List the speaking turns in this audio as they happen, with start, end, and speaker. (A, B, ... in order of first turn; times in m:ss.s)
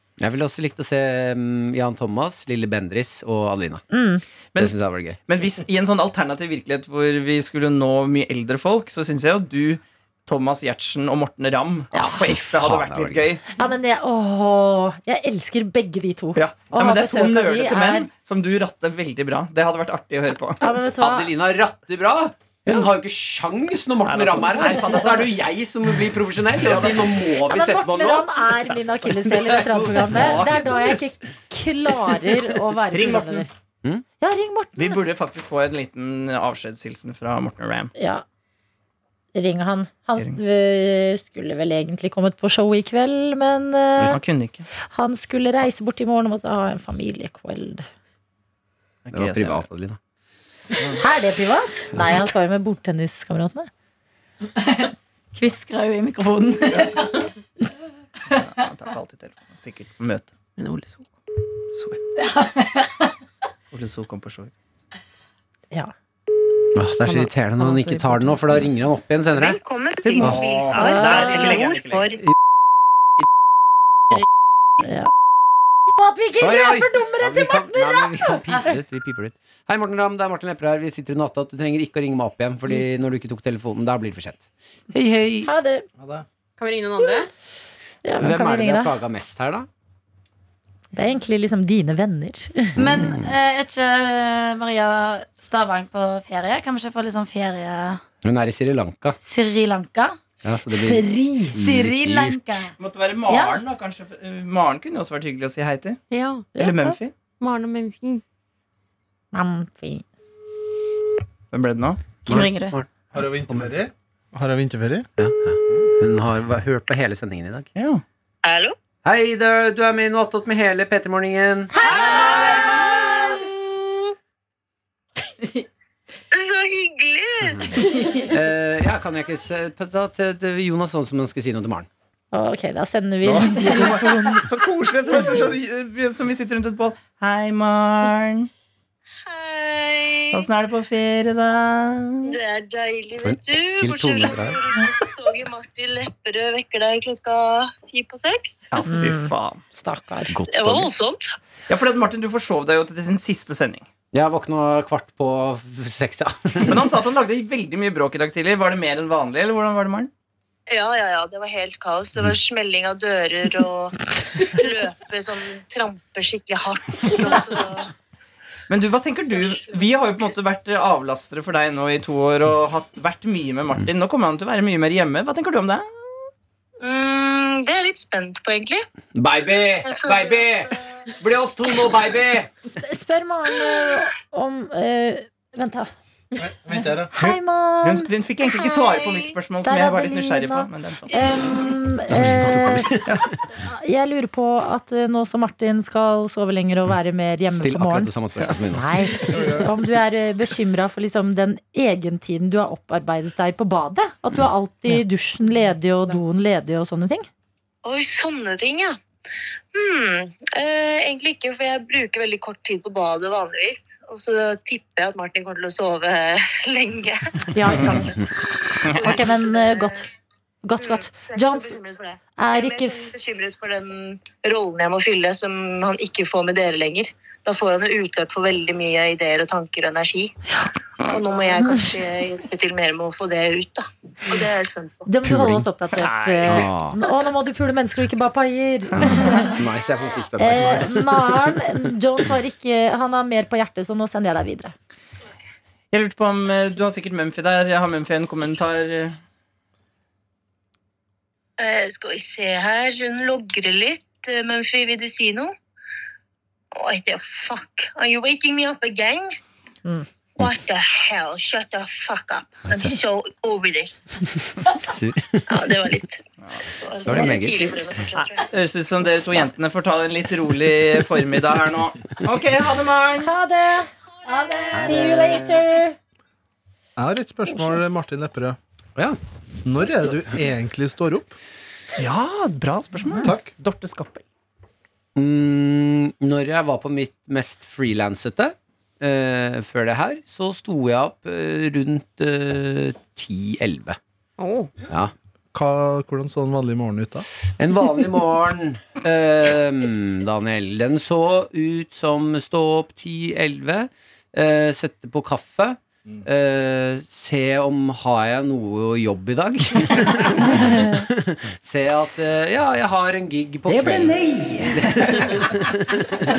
0:00.2-0:03.8 A
0:03.9-0:04.2 B
0:04.6-0:05.2 A
0:05.2-0:13.4 C
0:11.9-0:12.3 B
0:12.0-0:13.3 A
0:13.6-0:18.1 B
0:16.3-0:20.6 C
0:20.6-0:21.3 B
0:21.0-0:28.5 A
0:24.0-0:25.4 C
0:26.6-0:27.1 C
0:27.4-0:33.5 B
0:29.0-0:31.2 A
0:32.9-0:33.5 C
0:34.2-0:35.0 B
0:34.8-0:37.9 C
0:38.0-0:38.2 B
0:39.3-0:44.2 B
0:44.1-0:44.6 C
0:44.9-0:47.8 B
0:49.0-0:49.6 C
0:49.1-0:50.0 A
0:51.0-0:53.7 B
0:54.6-0:57.3 D
0:58.3-1:00.3 C
1:00.6-1:01.1 E
1:01.7-1:02.0 C
1:02.2-1:03.0 D
1:03.7-1:04.5 C
1:06.7-1:09.6 A
1:07.0-1:08.6 E
1:09.3-1:12.2 F
1:10.0-1:12.0 C
1:10.7-1:11.5 B
1:14.8-1:15.1 B
1:15.9-1:18.8 B
1:16.4-1:25.5 A
1:25.4-1:25.8 B
1:26.0-1:26.2 G
1:26.6-1:27.3 E
1:28.0-1:28.9 B
1:28.2-1:29.7 A
1:30.9-1:32.7 B
1:32.8-1:33.3 A
1:32.8-1:38.0 D
1:38.2-1:39.2 A
1:39.2-1:40.2 D
1:40.4-1:42.4 A
1:40.8-1:41.6 B
1:41.6-1:42.7 D
1:42.8-1:46.0 C
1:43.3-1:43.6 D
1:46.1-1:46.5 E
1:46.6-1:47.0 B
1:46.6-1:47.1 C
1:47.4-1:48.2 E
1:49.3-1:50.0 B
1:51.5-1:52.0 C
1:52.2-1:53.6 A
1:52.3-1:52.7 B
1:53.1-1:55.1 G
1:55.2-1:57.7 A
1:57.8-1:58.0 C
1:58.4-1:58.7 F
1:59.0-2:01.8 A
2:01.8-2:02.5 B
2:02.0-2:03.9 F
2:06.3-2:07.9 F
2:08.3-2:11.9 A
2:12.3-2:14.3 B
2:13.2-2:18.5 C
2:19.2-2:20.4 F
2:20.3-2:22.4 C
2:22.2-2:28.6 F
2:23.2-2:24.6 A
2:28.7-2:29.6 C
2:28.9-2:30.4 B
2:30.3-2:30.9 A
2:30.5-2:31.3 F
2:31.7-2:33.8 C
2:34.1-2:36.9 A
2:36.6-2:40.1 C
2:40.7-2:47.9 F
2:48.7-2:55.8 C
2:49.4-2:49.6 F
2:56.8-2:58.8 F
2:59.1-3:02.5 A
2:59.8-3:00.4 F
3:02.6-3:05.9 B
3:06.4-3:07.1 G
3:07.1-3:08.1 B
3:07.2-3:11.1 C
3:08.7-3:09.2 F
3:09.6-3:12.9 B
3:12.1-3:13.2 A
3:13.6-3:18.1 B
3:17.5-3:19.4 A
3:18.7-3:27.2 B
3:27.8-3:29.0 F
3:29.7-3:37.2 F
3:37.5-3:40.0 B
3:38.8-3:39.1 C
3:38.9-3:39.9 F
3:40.6-3:41.7 B
3:40.8-3:50.3 F
3:42.4-3:43.1 B
3:51.0-3:55.0 F
3:55.1-3:59.6 B
3:55.2-3:55.7 A
3:56.0-3:56.7 C
3:56.4-3:57.0 A
3:59.0-4:01.6 A
4:00.4-4:04.7 B
4:05.9-4:09.2 C
4:11.6-4:15.5 F
4:16.7-4:19.3 F
4:20.4-4:24.1 F
4:24.8-4:25.5 A
4:25.5-4:28.5 F
4:27.0-4:27.8 A
4:28.2-4:33.3 C
4:33.2-4:33.9 B
4:34.3-4:35.4 D
4:34.7-4:36.0 B
4:37.0-4:38.6 G
4:39.6-4:41.3 G
4:42.0-4:44.2 C
4:43.2-4:43.5 G
4:45.2-4:54.0 A
4:54.4-4:54.7 E
4:55.5-4:57.2 G
4:57.6-5:14.2 A
5:13.7-5:15.5 C
5:14.7-5:16.0 A